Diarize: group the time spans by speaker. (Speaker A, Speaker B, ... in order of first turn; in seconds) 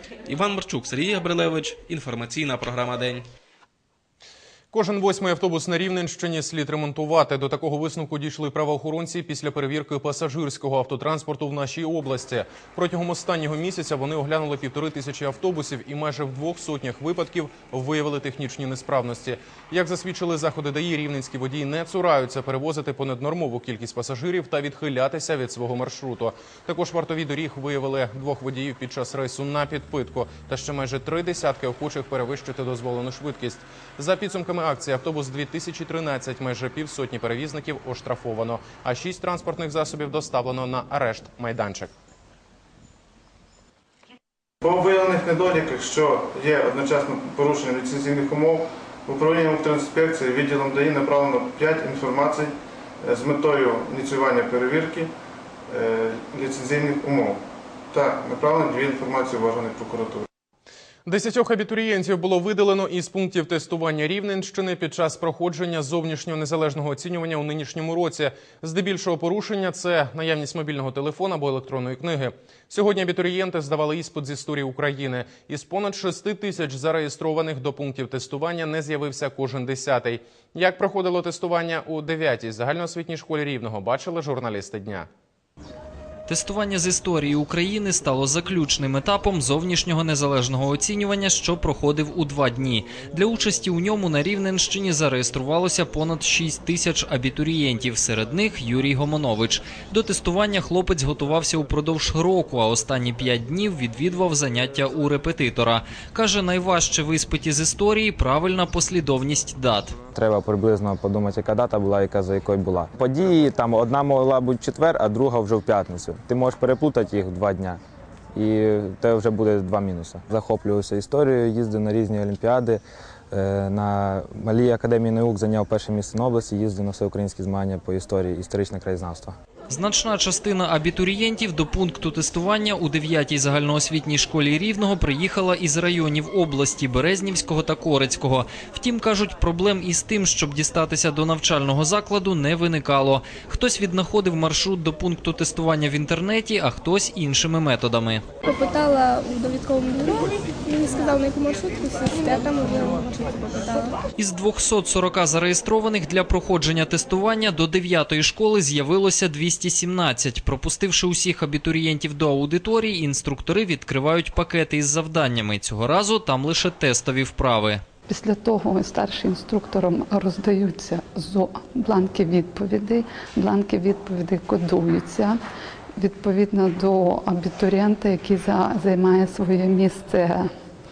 Speaker A: 0.3-3.3
Speaker B: 4.7-41.9, 61.1-85.1
Speaker C: 44.6-55.1, 55.7-57.4, 57.9-60.3
Speaker D: 86.3-110.0, 129.7-148.2, 154.2-167.8
Speaker E: 110.1-117.8, 118.3-122.8, 123.3-129.4
Speaker F: 148.4-154.0
Speaker G: 168.1-175.4, 176.0-180.5